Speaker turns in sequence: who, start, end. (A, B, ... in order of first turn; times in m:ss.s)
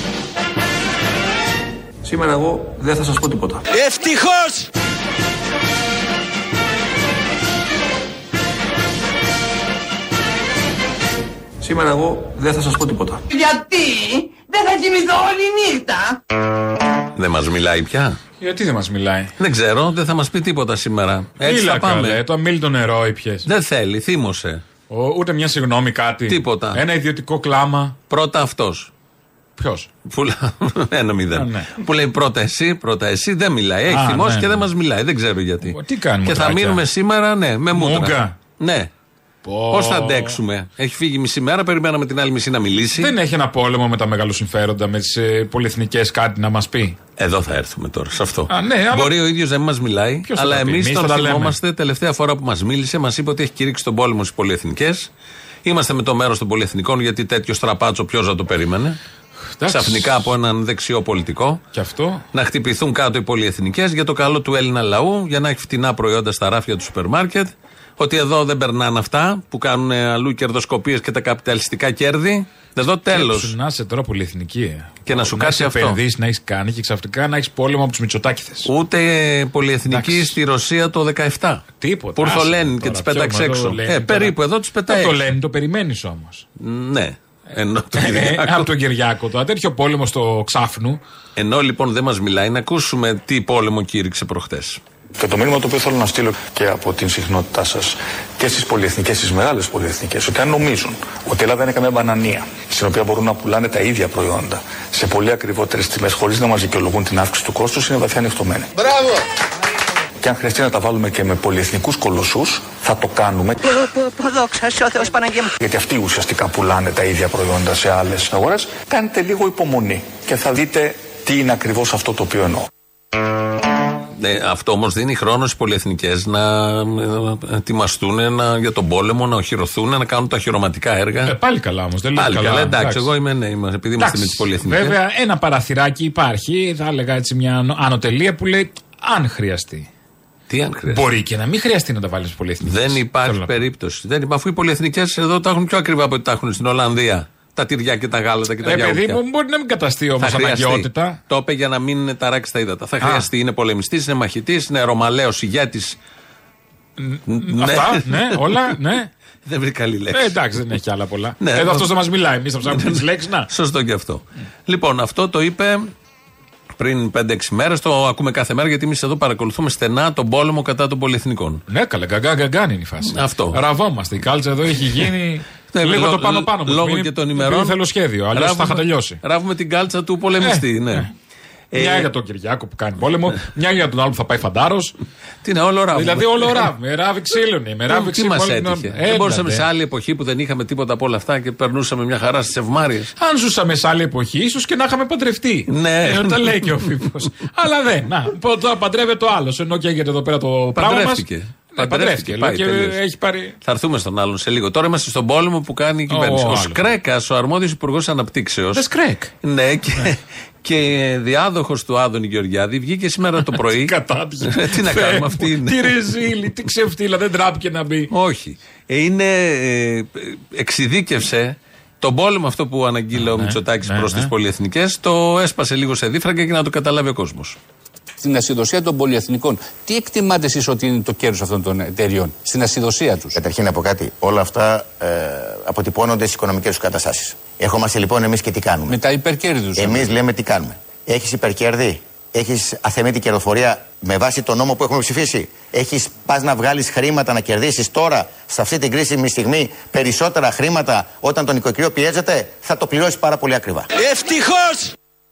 0:02.0-0:03.6 A
0:03.7-0:04.7 B
0:11.6-0:13.2 A
0:15.4-0:15.8 C
0:17.1-0:18.2 D
0:18.4-0:19.3 E
0:19.4-0:22.2 D
0:21.4-0:23.4 E
0:23.4-0:24.6 D
0:24.9-0:28.0 E
0:26.3-0:26.8 D
0:28.1-0:28.9 D
0:29.6-0:29.9 E
0:30.1-0:38.9 D
0:31.3-0:31.8 E
0:33.9-0:34.7 E
0:35.6-0:36.8 E
0:37.7-0:38.3 E
0:39.4-0:40.4 E
0:39.7-0:43.1 D
0:43.0-0:47.0 E
0:47.2-0:55.1 D
0:48.5-0:49.2 E
0:50.3-0:51.6 E
0:55.6-0:59.0 D
0:59.6-1:00.2 E
0:59.7-1:01.6 D
1:01.7-1:02.2 E
1:02.3-1:13.5 D
1:13.1-1:18.7 E
1:15.0-1:16.0 D
1:18.6-1:21.6 D
1:19.9-1:20.4 E
1:21.8-1:24.3 E
1:22.2-1:25.2 D
1:24.9-1:26.4 E
1:26.6-1:28.7 D
1:28.0-1:31.0 E
1:31.4-1:34.8 D
1:35.2-1:48.7 F
1:50.2-1:53.6 F
1:53.6-1:55.5 C
1:55.6-2:02.7 F
2:04.2-2:11.3 D
2:11.2-2:13.0 E
2:12.2-2:15.0 D
2:14.0-2:19.9 E
2:20.5-2:21.1 D
2:20.9-2:23.6 E
2:22.6-2:29.2 D
2:28.6-2:31.2 E
2:30.2-2:36.0 D
2:33.0-2:33.3 E
2:37.0-2:39.1 E
2:37.3-2:38.8 D
2:39.5-2:40.4 D
2:40.1-2:43.5 E
2:41.4-2:41.9 D
2:42.7-2:45.9 D
2:46.8-2:51.6 D
2:51.7-2:59.2 E
2:53.0-2:53.6 D
2:55.7-2:57.8 D
2:58.3-3:01.1 D
3:00.4-3:01.1 E
3:01.7-3:02.1 D
3:01.7-3:04.9 E
3:05.4-3:06.7 D
3:05.9-3:09.6 E
3:07.9-3:13.1 D
3:13.2-3:23.6 E
3:15.7-3:17.1 D
3:20.8-3:23.0 D
3:23.6-3:28.8 D
3:26.1-3:26.8 E
3:28.7-3:29.3 E
3:29.4-3:35.9 D
3:33.6-3:38.1 E
3:38.1-3:47.6 D
3:43.2-3:44.3 E
3:48.2-3:53.4 G
3:53.3-3:59.0 H
3:58.9-4:00.2 G
3:59.8-4:13.9 H
4:14.0-4:14.9 B